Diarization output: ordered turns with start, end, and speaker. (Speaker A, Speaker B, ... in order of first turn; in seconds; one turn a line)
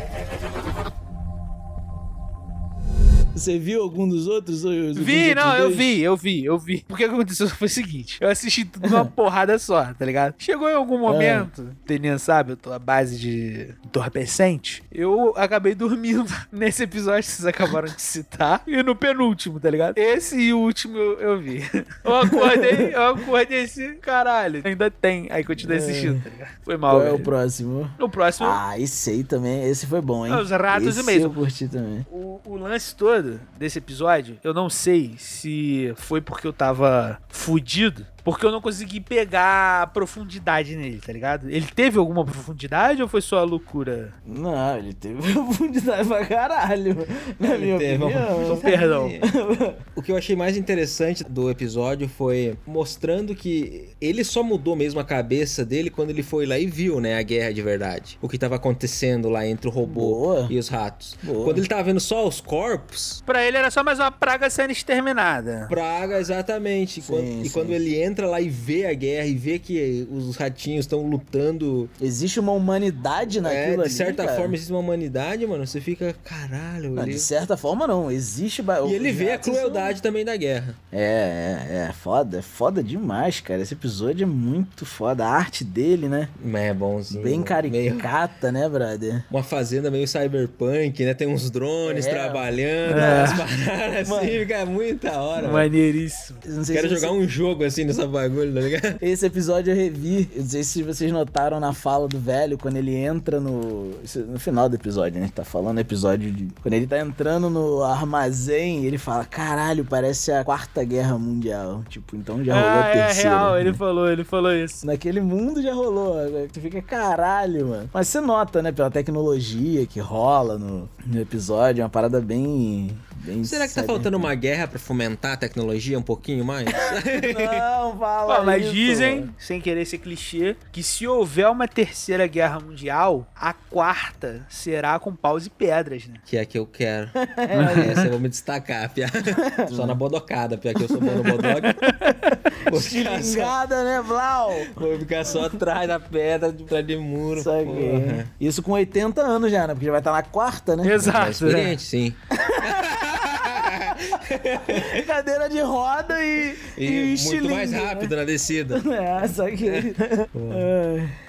Speaker A: 3.3-6.0
Speaker B: 5.0-27.3
Speaker A: 8.8-9.1
Speaker A: 11.1-11.5
Speaker A: 22.2-22.9
Speaker A: 25.6-26.2
Speaker A: 26.9-32.1
Speaker B: 28.0-28.6
Speaker B: 30.3-31.4
Speaker B: 32.1-44.1
Speaker A: 44.3-49.8
Speaker C: 47.4-49.3
Speaker B: 48.4-49.1
Speaker C: 50.0-63.2
Speaker A: 59.8-60.5
Speaker A: 61.2-61.7
Speaker B: 63.3-65.7
Speaker C: 65.7-71.9
Speaker A: 67.0-67.8
Speaker A: 72.0-74.6
Speaker C: 73.4-77.3
Speaker A: 77.0-80.0
Speaker C: 78.8-80.8
Speaker A: 80.9-86.3
Speaker C: 86.4-88.1
Speaker A: 87.1-89.3
Speaker C: 89.3-95.7
Speaker A: 91.8-93.5
Speaker B: 92.9-93.4
Speaker A: 94.0-94.4
Speaker B: 95.4-96.4
Speaker A: 96.4-97.1
Speaker C: 96.7-99.0
Speaker A: 99.0-113.8
Speaker B: 112.5-114.8
Speaker A: 114.8-124.3
Speaker C: 123.4-127.7
Speaker A: 126.8-129.3
Speaker B: 128.3-136.2
Speaker C: 136.3-141.8
Speaker A: 137.2-138.1
Speaker B: 137.5-138.1
Speaker A: 139.3-140.0
Speaker A: 141.0-141.3
Speaker B: 141.7-142.1
Speaker A: 142.1-145.5
Speaker C: 142.6-143.6
Speaker C: 144.7-148.3
Speaker A: 147.3-151.0
Speaker B: 150.8-151.8
Speaker C: 151.0-155.0
Speaker A: 152.3-158.1
Speaker C: 156.6-158.8
Speaker A: 158.7-161.1
Speaker C: 159.6-160.7